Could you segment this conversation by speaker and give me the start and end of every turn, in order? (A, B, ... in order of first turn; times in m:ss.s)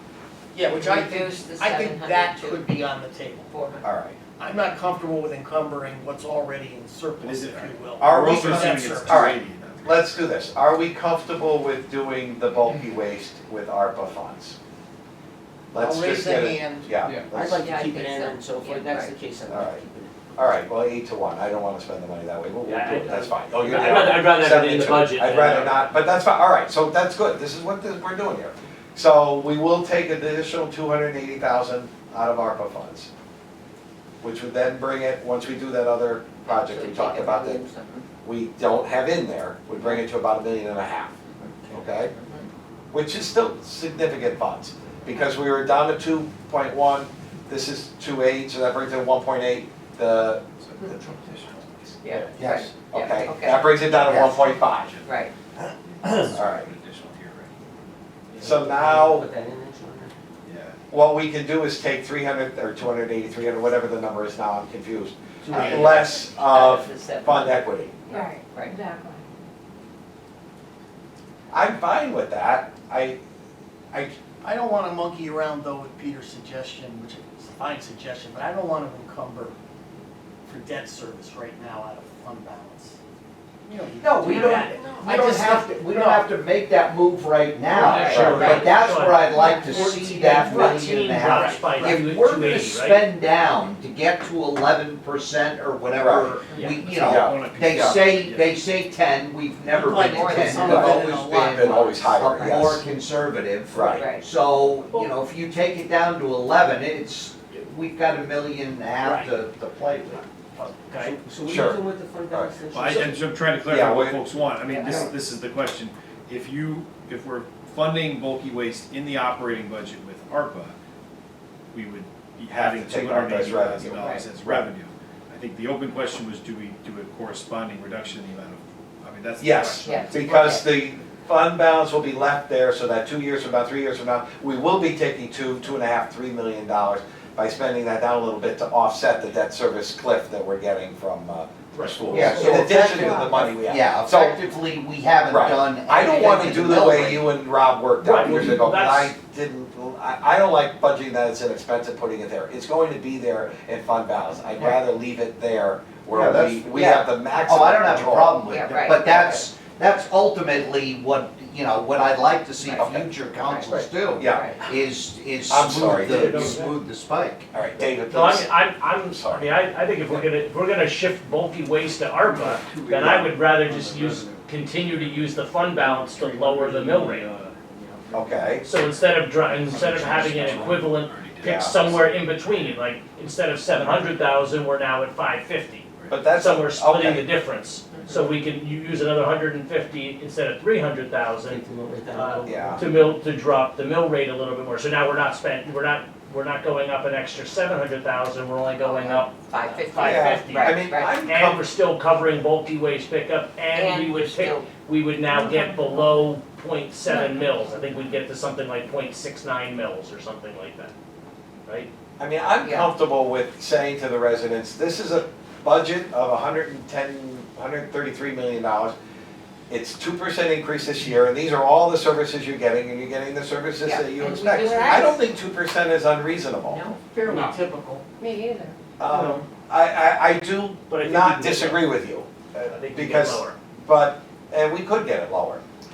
0:00.5-0:03.5 A
0:00.6-0:02.8 B
0:03.5-0:03.9 B
0:03.8-0:04.2 C
0:04.4-0:09.2 A
0:07.2-0:10.2 D
0:08.0-0:14.6 C
0:15.7-0:17.7 C
0:15.8-0:17.0 A
0:17.1-0:20.1 E
0:17.6-0:19.2 B
0:19.5-0:19.8 C
0:20.4-0:33.1 C
0:22.6-0:26.0 F
0:34.2-0:37.6 C
0:36.4-0:38.1 B
0:38.2-0:41.1 C
0:41.6-0:42.2 E
0:41.7-0:42.1 C
0:42.9-0:54.9 C
0:50.6-0:51.1 D
0:52.0-0:53.8 B
0:52.4-0:52.7 G
0:53.7-0:55.2 D
0:54.0-0:54.4 G
0:55.0-0:55.3 B
0:55.8-0:57.6 D
0:56.3-0:56.7 C
0:58.3-0:58.7 D
0:58.4-0:59.3 C
0:58.4-1:00.1 E
1:00.4-1:00.8 D
1:00.9-1:08.0 C
1:05.4-1:06.2 E
1:05.5-1:07.6 B
1:08.1-1:09.2 H
1:08.4-1:08.8 B
1:11.5-1:13.2 C
1:14.4-1:19.6 A
1:20.4-1:23.0 A
1:23.7-1:26.3 A
1:24.0-1:50.2 G
1:24.3-1:25.1 B
1:27.8-1:28.6 D
1:27.9-1:28.7 B
1:28.1-1:33.1 F
1:29.3-1:30.2 H
1:30.4-1:30.7 A
1:36.0-1:36.4 C
1:36.6-1:38.6 D
1:37.0-1:37.4 C
1:39.7-1:42.1 A
1:40.0-1:41.1 B
1:40.6-1:42.8 C
1:43.7-1:44.1 C
1:43.9-1:44.2 B
1:49.0-1:49.3 F
1:50.6-1:51.2 F
1:51.0-1:53.2 E
1:51.4-1:53.0 C
1:52.7-2:00.8 D
1:53.7-1:54.2 C
1:54.7-1:55.0 B
2:01.7-2:10.3 D
2:02.5-2:04.6 C
2:03.9-2:04.2 B
2:09.4-2:24.4 C
2:09.8-2:10.8 B
2:21.7-2:22.7 F
2:22.1-2:27.3 G
2:23.0-2:23.4 H
2:25.3-2:38.4 C
2:28.0-2:29.1 F
2:36.1-2:47.5 G
2:38.5-2:39.4 B
2:42.6-2:42.9 B
2:42.8-2:43.0 C
2:43.4-2:43.7 B
2:44.2-2:44.5 C
2:44.3-2:44.6 B
2:45.5-2:46.6 C
2:45.9-2:46.7 F
2:47.5-2:49.6 C
2:48.1-2:57.3 F
2:58.1-2:58.6 C
2:58.6-3:11.6 F
2:59.7-3:02.8 D
3:00.0-3:00.6 E
3:01.4-3:01.8 C
3:06.1-3:07.3 C
3:11.4-3:12.8 E
3:12.1-3:30.9 F
3:12.4-3:12.8 C
3:18.8-3:21.2 B
3:20.0-3:21.6 C
3:23.7-3:24.7 B
3:25.3-3:26.3 H
3:27.2-3:27.8 H
3:32.2-3:39.0 C
3:32.6-3:32.9 B
3:39.7-3:46.8 C
3:43.8-3:45.2 B
3:46.6-3:47.0 B
3:47.1-3:48.0 A
3:48.2-3:48.8 H
3:49.0-3:55.6 C
3:50.9-3:51.9 F
3:52.6-3:53.6 F